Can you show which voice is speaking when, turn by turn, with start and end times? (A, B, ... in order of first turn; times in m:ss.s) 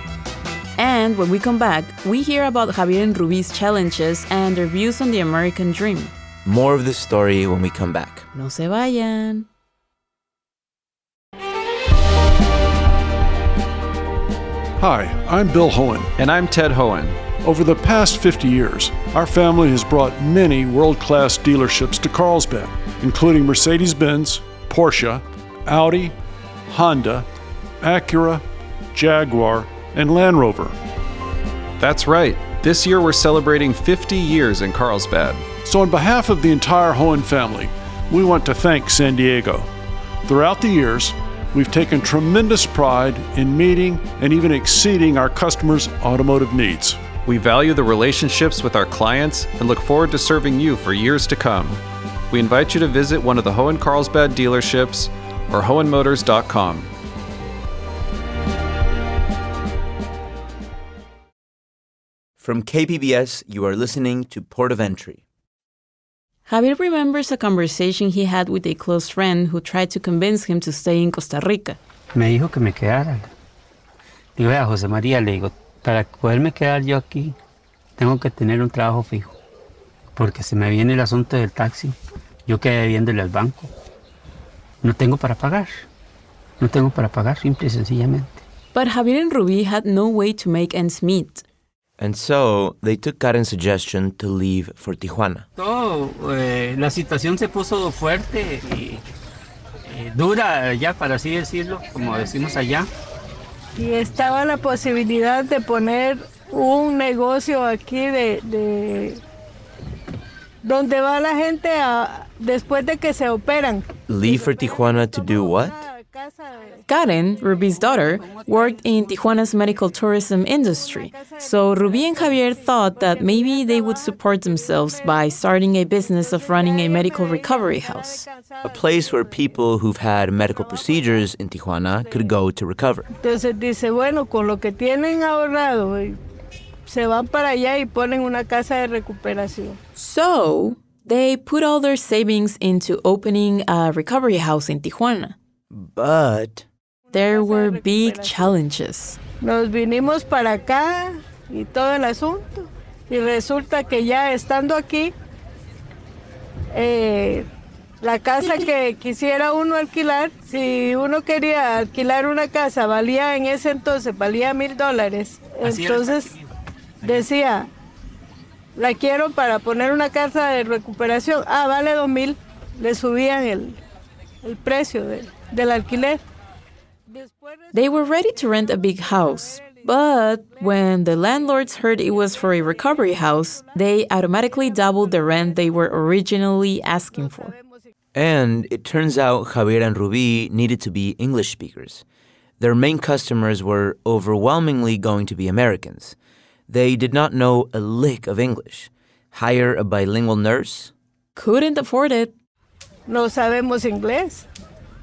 0:00.8-0:06.1 A
0:06.4-0:08.3 B
0:08.3-0:09.5 A
0:14.8-0:16.1 C
0:16.2-0:17.2 D
0:17.4-0:26.1 C
0:26.7-0:27.2 C
0:27.8-0:28.4 C
0:28.9-0:30.7 C
0:31.8-0:35.5 D
0:35.6-0:39.7 C
0:40.2-0:47.0 C
0:47.2-0:56.9 D
1:02.4-1:05.2 B
1:06.5-1:11.8 A
1:12.1-1:13.3 E
1:14.4-1:17.4 E
1:18.0-1:19.3 E
1:20.1-1:22.0 E
1:22.5-1:23.7 E
1:24.8-1:25.8 E
1:26.6-1:28.4 E
1:28.7-1:31.4 A
1:32.0-1:35.5 B
1:35.6-1:39.0 E
1:39.8-1:42.9 E
1:43.8-1:49.2 F
1:50.6-1:56.8 F
1:54.1-1:55.8 B
1:56.9-2:08.3 A
2:00.9-2:05.3 F
2:06.2-2:09.4 F
2:08.6-2:13.1 B
2:13.2-2:16.2 F
2:16.9-2:19.8 F
2:20.0-2:25.4 A
2:25.7-2:26.6 B
2:27.1-2:29.2 A
2:27.1-2:28.5 F
2:29.4-2:35.1 F
2:36.7-2:37.5 F
2:38.0-2:46.3 F
2:45.6-2:46.4 E
2:47.0-2:47.7 F
2:48.8-2:53.8 F
2:54.4-2:56.2 F
2:57.1-2:58.1 F
2:57.7-3:07.5 A
3:07.2-3:07.8 F
3:08.1-3:12.0 B
3:12.6-3:16.2 B
3:16.7-3:20.9 B
3:21.3-3:22.3 A
3:23.1-3:24.4 F